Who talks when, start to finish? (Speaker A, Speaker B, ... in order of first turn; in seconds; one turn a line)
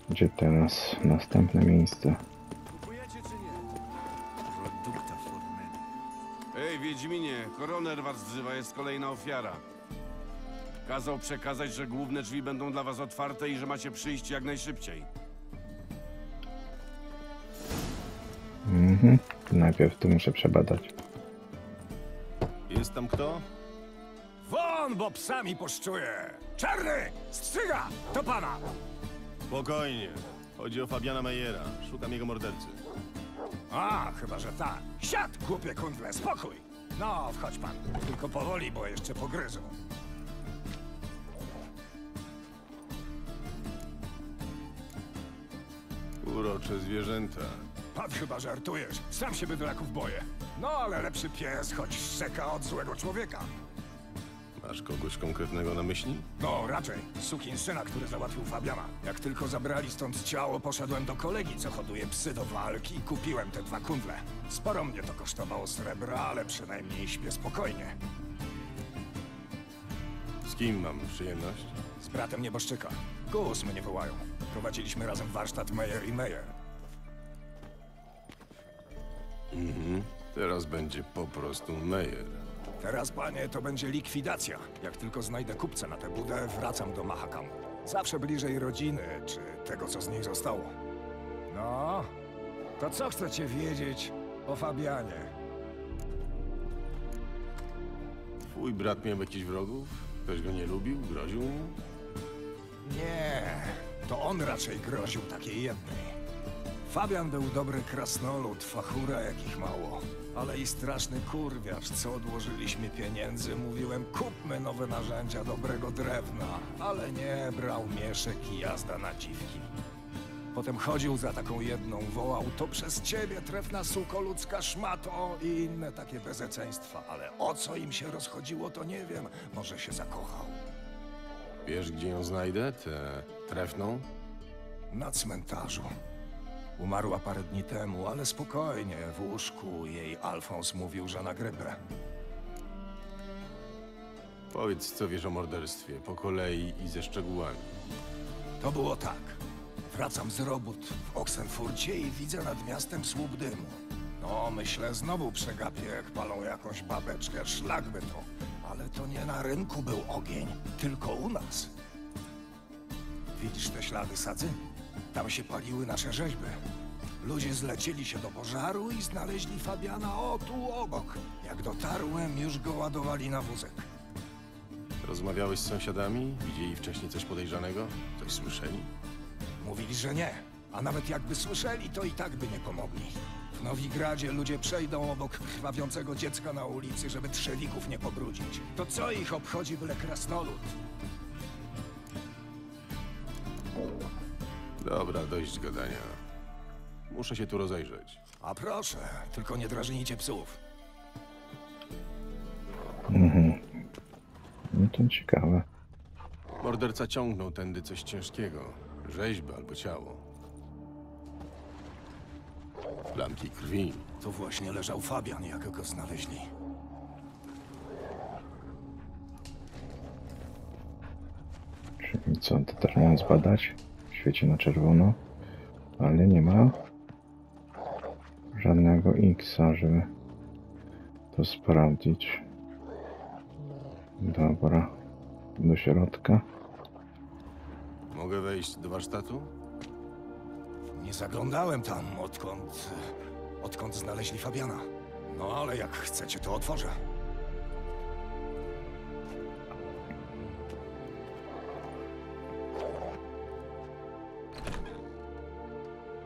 Speaker A: 0.1-2.2
Speaker B: 2.7-3.6
Speaker B: 6.5-9.6
Speaker B: 10.8-15.1
Speaker A: 18.6-20.9
Speaker C: 22.7-23.4
Speaker D: 24.4-28.7
Speaker C: 29.5-32.8
Speaker D: 33.7-39.8
Speaker C: 46.2-47.7
Speaker D: 47.9-53.5
Speaker C: 54.6-56.3
Speaker D: 56.4-68.0
Speaker C: 70.4-71.8
Speaker D: 72.0-76.5
Speaker C: 79.5-82.4
Speaker D: 82.8-90.8
Speaker D: 91.5-92.1
Speaker D: 92.8-95.3
Speaker C: 98.4-101.8
Speaker D: 102.8-106.2
Speaker D: 106.9-119.7
Speaker D: 120.5-130.6
Speaker C: 131.7-134.1
Speaker D: 134.9-135.9
Speaker D: 136.8-141.8
Speaker C: 144.5-147.7
Speaker D: 148.6-149.4
Speaker D: 149.9-161.7
Speaker D: 163.4-164.6
Speaker D: 165.1-166.6
Speaker D: 167.2-173.9
Speaker C: 175.0-178.9
Speaker D: 179.6-190.8
Speaker C: 194.8-196.2
Speaker C: 197.1-198.2
Speaker D: 198.4-200.6
Speaker A: 203.1-203.8
Speaker A: 204.7-205.7
Speaker C: 206.6-210.2
Speaker C: 213.1-214.1
Speaker D: 214.2-216.5
Speaker A: 222.0-225.2
Speaker A: 226.0-226.8
Speaker A: 228.6-230.1
Speaker A: 231.3-232.4
Speaker A: 234.2-234.9
Speaker A: 235.6-236.4
Speaker C: 238.1-239.5
Speaker D: 240.9-243.1
Speaker D: 243.6-247.0